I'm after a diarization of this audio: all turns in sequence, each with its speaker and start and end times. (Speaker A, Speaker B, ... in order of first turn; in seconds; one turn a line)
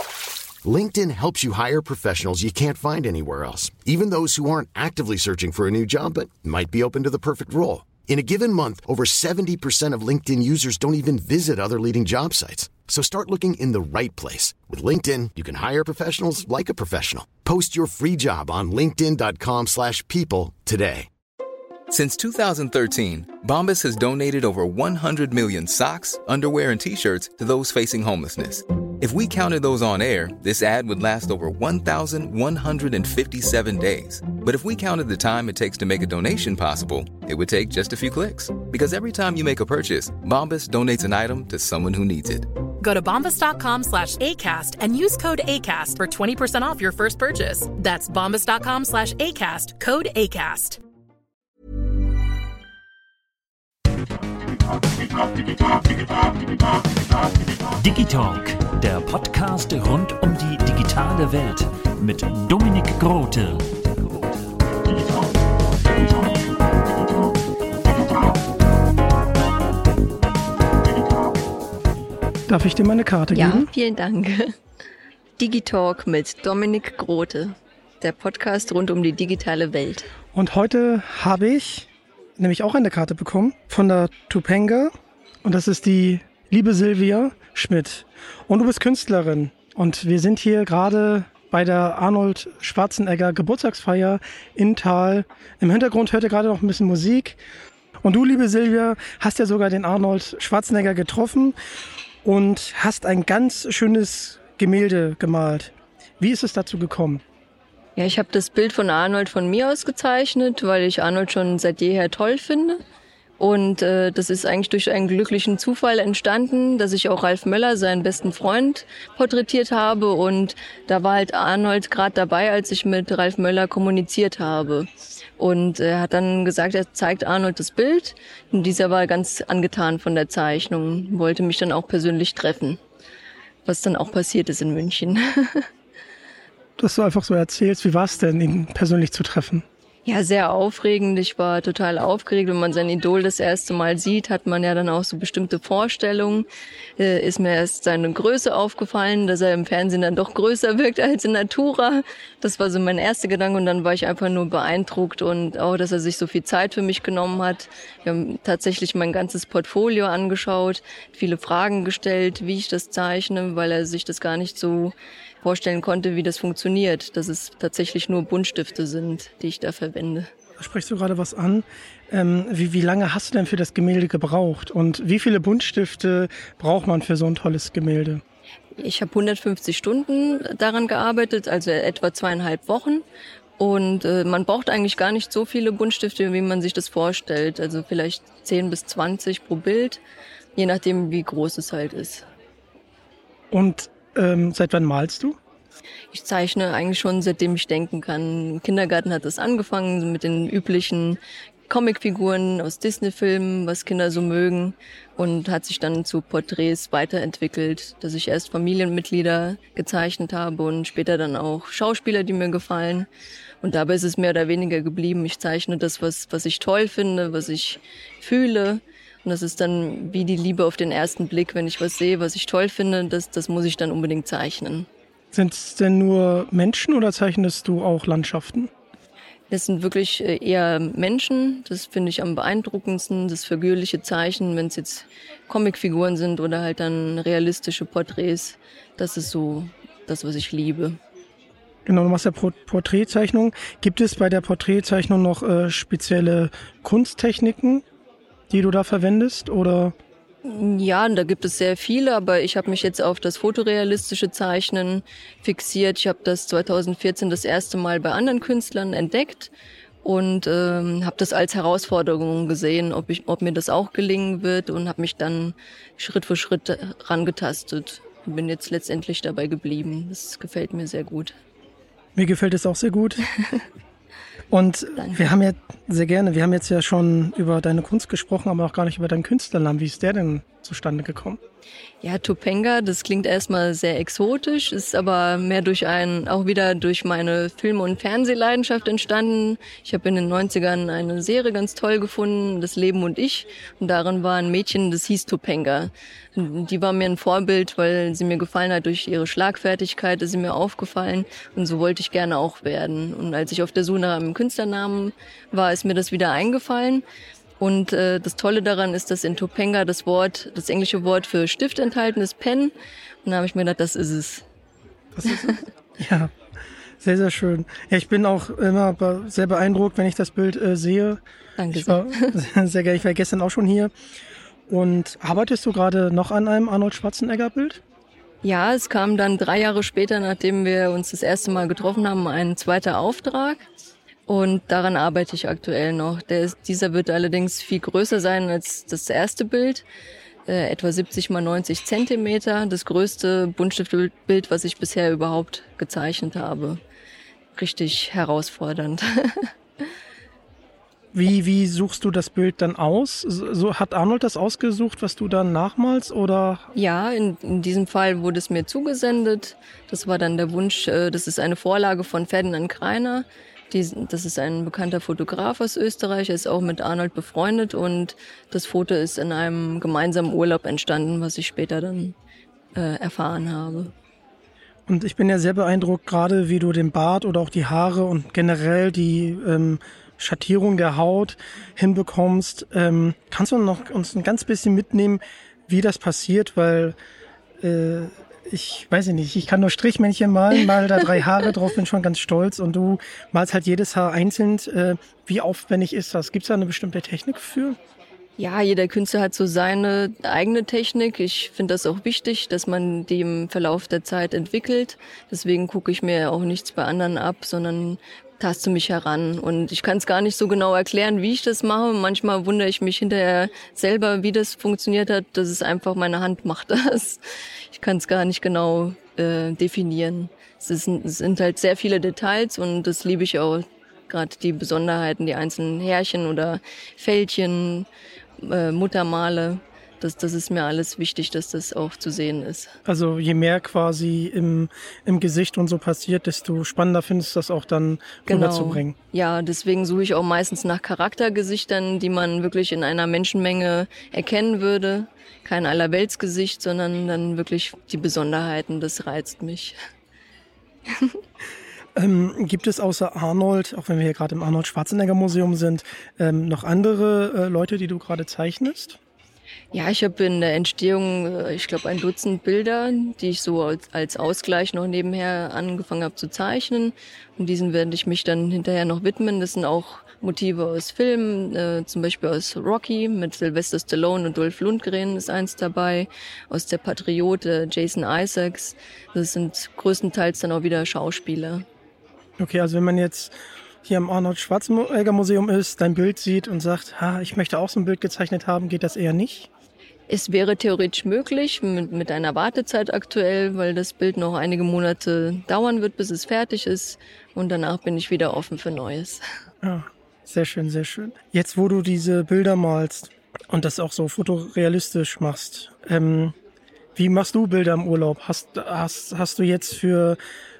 Speaker A: 0.6-21.1
Speaker B: 21.9-42.5
Speaker C: 42.8-50.8
Speaker D: 57.7-64.3
Speaker E: 72.5-73.7
Speaker F: 73.3-74.5
Speaker F: 75.4-80.1
Speaker E: 80.3-84.9
Speaker E: 85.4-97.4
Speaker E: 98.0-101.5
Speaker E: 102.2-107.2
Speaker F: 108.0-112.8
Speaker F: 113.4-132.8
Speaker F: 133.6-135.7
Speaker E: 136.8-139.6
Speaker F: 140.0-146.5
Speaker F: 147.0-170.3
Speaker E: 170.6-178.2
Speaker F: 178.8-183.0
Speaker F: 183.6-190.0
Speaker F: 190.5-192.2
Speaker E: 193.5-195.4
Speaker F: 196.1-213.1
Speaker F: 213.6-224.9
Speaker E: 225.3-228.7
Speaker F: 229.5-241.0
Speaker E: 241.8-247.8
Speaker E: 248.5-249.9
Speaker F: 250.4-259.5
Speaker F: 260.0-271.4
Speaker E: 272.1-273.2
Speaker E: 274.5-281.4
Speaker F: 282.0-307.0
Speaker F: 307.6-314.4
Speaker E: 315.1-316.3
Speaker E: 317.0-321.2
Speaker F: 321.6-322.3
Speaker E: 321.7-323.9
Speaker E: 324.7-327.8
Speaker F: 328.4-333.7
Speaker F: 334.3-339.8
Speaker F: 340.4-346.8
Speaker F: 347.5-349.5
Speaker E: 351.1-356.7
Speaker F: 356.7-372.1
Speaker F: 372.7-373.9
Speaker E: 374.9-386.9
Speaker E: 387.6-397.8
Speaker F: 398.4-417.2
Speaker F: 417.7-427.9
Speaker F: 428.4-432.7
Speaker E: 432.8-438.9
Speaker F: 438.3-449.8
Speaker F: 450.9-451.2
Speaker E: 452.0-459.0
Speaker F: 459.7-481.6
Speaker E: 482.4-489.5
Speaker F: 490.1-499.2
Speaker E: 499.6-506.3
Speaker E: 506.9-510.2